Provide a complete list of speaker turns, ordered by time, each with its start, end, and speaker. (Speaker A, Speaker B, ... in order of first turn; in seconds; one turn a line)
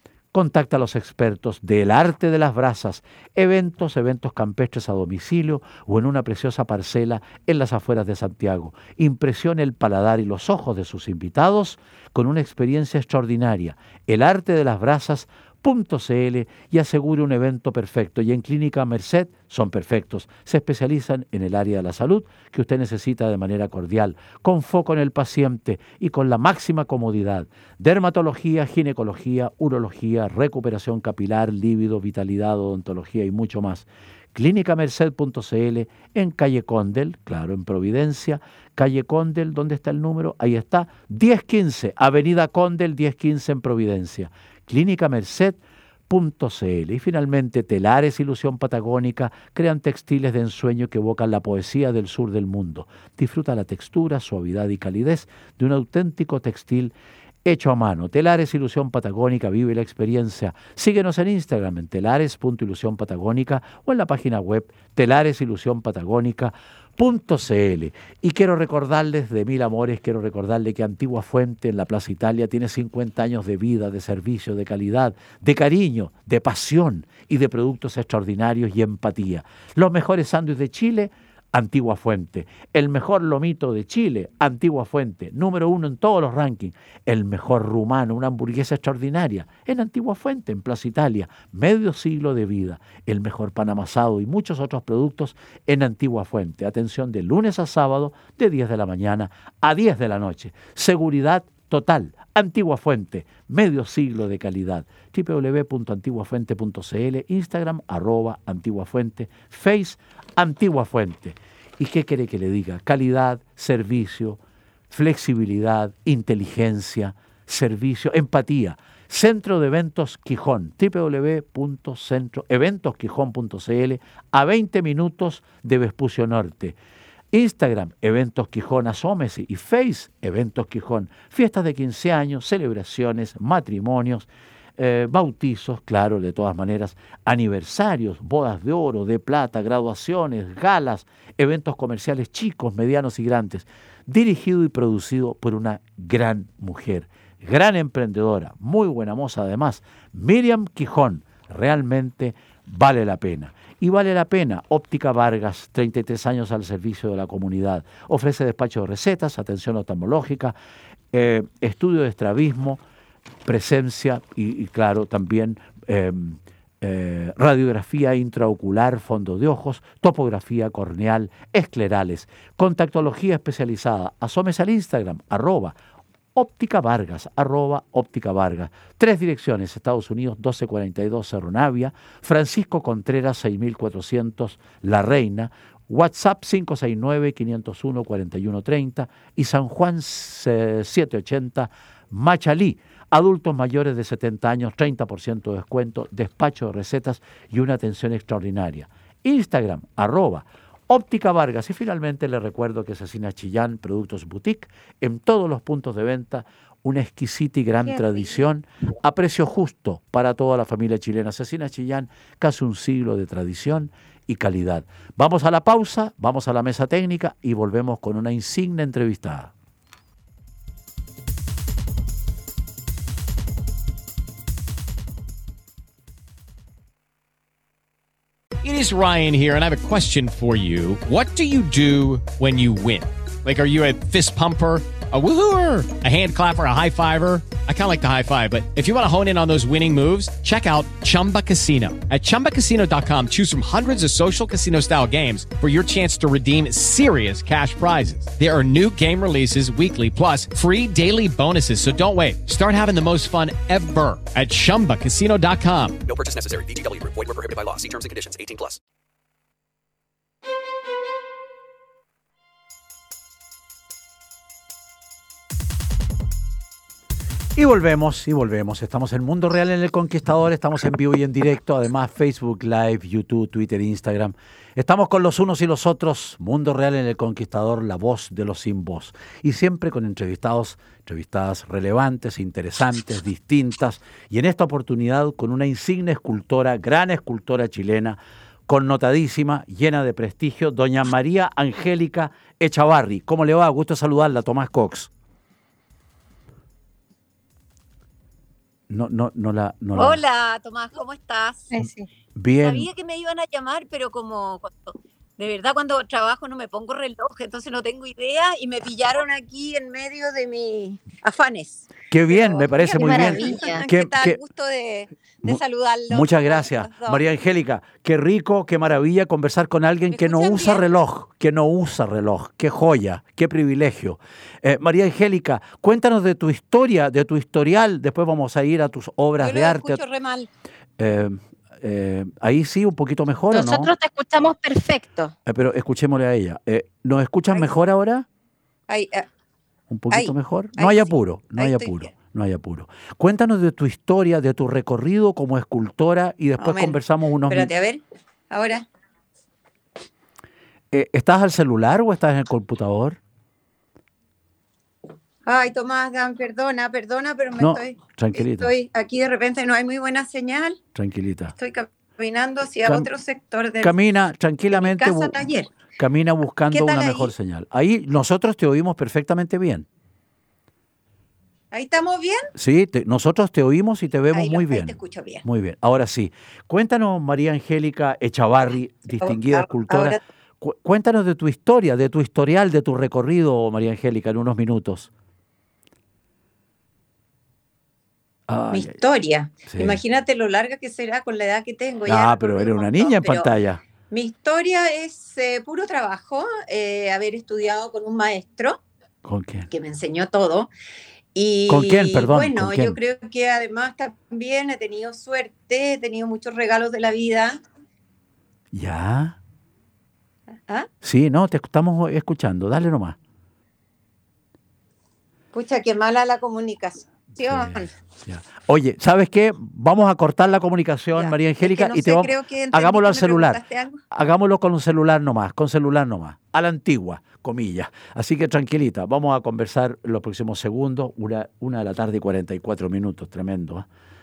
Speaker A: 0.3-56.9
Speaker A: 57.4-114.4
Speaker A: 114.9-126.8
Speaker A: 127.3-160.5
Speaker A: 161.1-162.8
Speaker A: 163.4-175.8
Speaker A: 176.3-219.5
Speaker B: 228.6-256.0
Speaker C: 256.1-258.8
Speaker A: 267.6-295.1
Speaker A: 298.9-300.2
Speaker D: 299.9-301.8
Speaker E: 301.7-302.1
Speaker A: 302.4-302.9
Speaker D: 302.6-317.2
Speaker A: 312.1-314.4
Speaker E: 312.9-313.8
Speaker A: 316.1-330.0
Speaker D: 320.1-320.9
Speaker D: 329.4-330.5
Speaker A: 331.0-333.9
Speaker E: 333.5-335.3
Speaker A: 335.4-338.2
Speaker D: 338.9-339.3
Speaker A: 339.9-347.7
Speaker D: 340.1-342.1
Speaker D: 346.6-348.8
Speaker A: 350.9-353.2
Speaker D: 355.4-360.8
Speaker A: 357.6-358.7
Speaker A: 360.9-361.5
Speaker D: 361.6-363.9
Speaker A: 363.8-365.4
Speaker D: 364.7-365.7
Speaker A: 365.9-369.9
Speaker D: 366.7-367.3
Speaker D: 371.7-372.5
Speaker A: 372.6-385.1
Speaker D: 374.3-375.4
Speaker D: 379.1-380.2
Speaker A: 388.5-389.0
Speaker D: 388.7-393.5
Speaker A: 389.7-390.0
Speaker A: 392.1-393.8
Speaker D: 394.1-398.8
Speaker A: 399.2-399.7
Speaker D: 399.7-400.7
Speaker D: 401.3-407.6
Speaker A: 401.7-403.0
Speaker A: 408.7-409.4
Speaker A: 411.0-413.2
Speaker D: 415.5-417.9
Speaker A: 417.5-433.9
Speaker D: 421.1-424.0